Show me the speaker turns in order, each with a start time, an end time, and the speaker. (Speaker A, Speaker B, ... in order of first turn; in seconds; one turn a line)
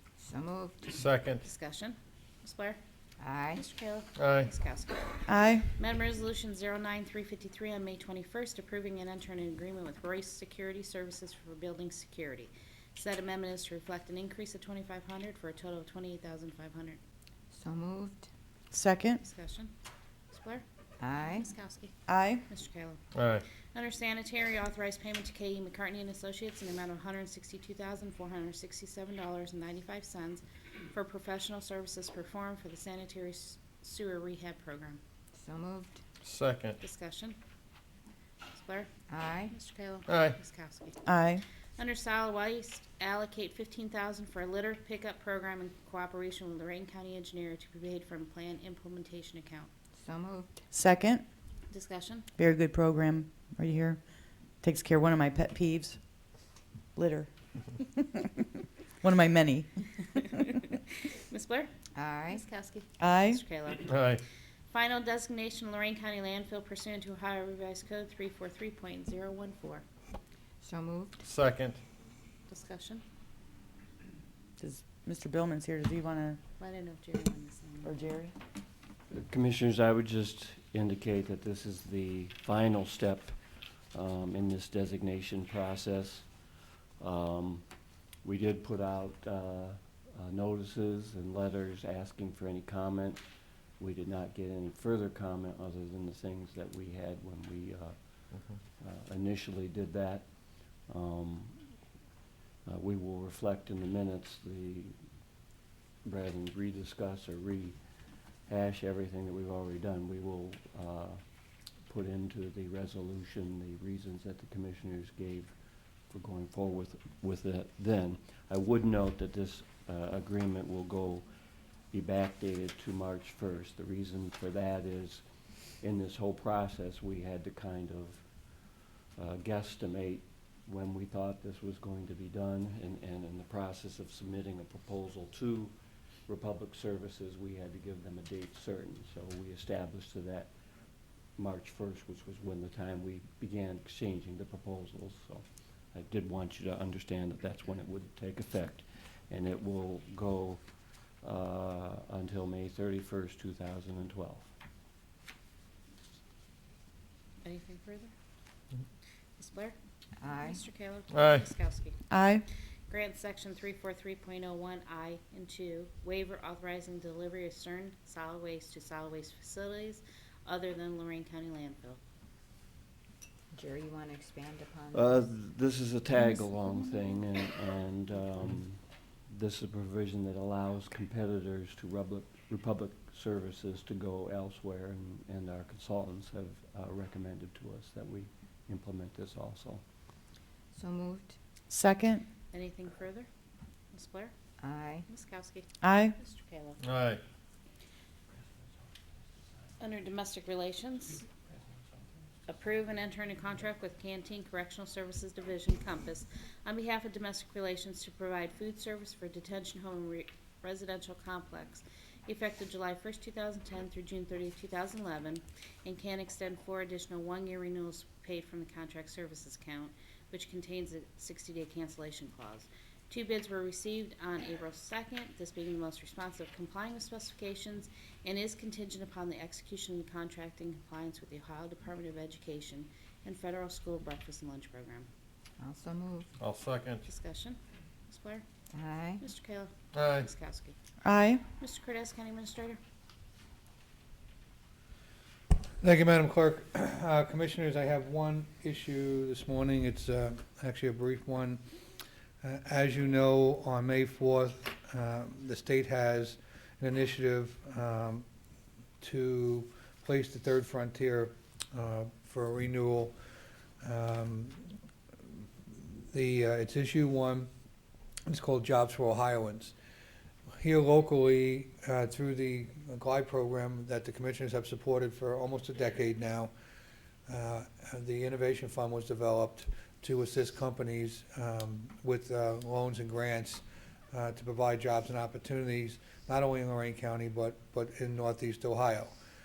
Speaker A: 0.2-1.0
Speaker B: 0.9-1.4
Speaker C: 1.4-2.8
Speaker A: 3.2-3.6
Speaker C: 3.5-17.0
Speaker B: 4.2-4.5
Speaker D: 5.3-5.7
Speaker A: 17.5-18.3
Speaker D: 18.7-19.2
Speaker C: 19.2-19.7
Speaker C: 20.3-20.6
Speaker A: 21.0-21.5
Speaker C: 21.2-21.9
Speaker D: 22.1-22.4
Speaker C: 22.5-23.0
Speaker B: 23.1-23.4
Speaker C: 23.7-35.0
Speaker A: 35.3-36.0
Speaker B: 36.2-36.8
Speaker C: 36.8-37.4
Speaker C: 38.5-38.9
Speaker A: 39.1-39.5
Speaker C: 39.5-41.0
Speaker B: 40.1-40.4
Speaker D: 41.1-41.4
Speaker C: 41.8-49.7
Speaker A: 49.9-50.6
Speaker D: 50.7-51.2
Speaker C: 51.7-52.3
Speaker D: 52.4-58.5
Speaker D: 59.0-60.0
Speaker C: 60.1-61.7
Speaker A: 62.0-62.5
Speaker C: 62.3-63.9
Speaker D: 63.0-63.4
Speaker B: 63.8-64.2
Speaker C: 64.7-69.8
Speaker A: 70.6-71.2
Speaker B: 71.2-71.8
Speaker C: 72.5-73.0
Speaker D: 74.6-76.4
Speaker C: 76.6-78.0
Speaker D: 77.8-78.3
Speaker E: 79.1-86.3
Speaker E: 87.0-87.7
Speaker E: 88.2-93.2
Speaker E: 93.8-101.8
Speaker B: 98.3-98.6
Speaker E: 102.7-105.0
Speaker E: 106.0-111.2
Speaker E: 111.8-121.3
Speaker E: 121.9-135.8
Speaker E: 136.3-140.5
Speaker E: 141.4-150.6
Speaker E: 151.2-154.5
Speaker C: 157.4-158.1
Speaker C: 159.4-159.8
Speaker A: 160.2-160.6
Speaker C: 160.4-162.0
Speaker B: 161.1-161.5
Speaker D: 162.1-162.4
Speaker C: 162.9-172.0
Speaker A: 173.5-175.3
Speaker E: 174.9-189.8
Speaker A: 190.7-191.3
Speaker D: 191.7-192.2
Speaker C: 192.5-193.3
Speaker C: 193.9-194.3
Speaker A: 194.6-195.1
Speaker C: 195.1-196.8
Speaker D: 195.8-196.2
Speaker B: 196.8-197.2
Speaker C: 199.8-201.2
Speaker C: 202.5-235.1
Speaker A: 235.6-236.3
Speaker B: 236.4-237.0
Speaker C: 237.1-238.4
Speaker A: 238.7-239.2
Speaker C: 239.2-240.8
Speaker B: 239.9-240.3
Speaker D: 241.1-241.4
Speaker C: 241.6-242.8
Speaker F: 245.8-251.6
Speaker F: 252.4-258.2
Speaker F: 259.0-263.1
Speaker F: 263.8-264.6
Speaker F: 266.1-267.5
Speaker F: 268.3-269.8
Speaker F: 270.6-276.5
Speaker F: 277.3-289.1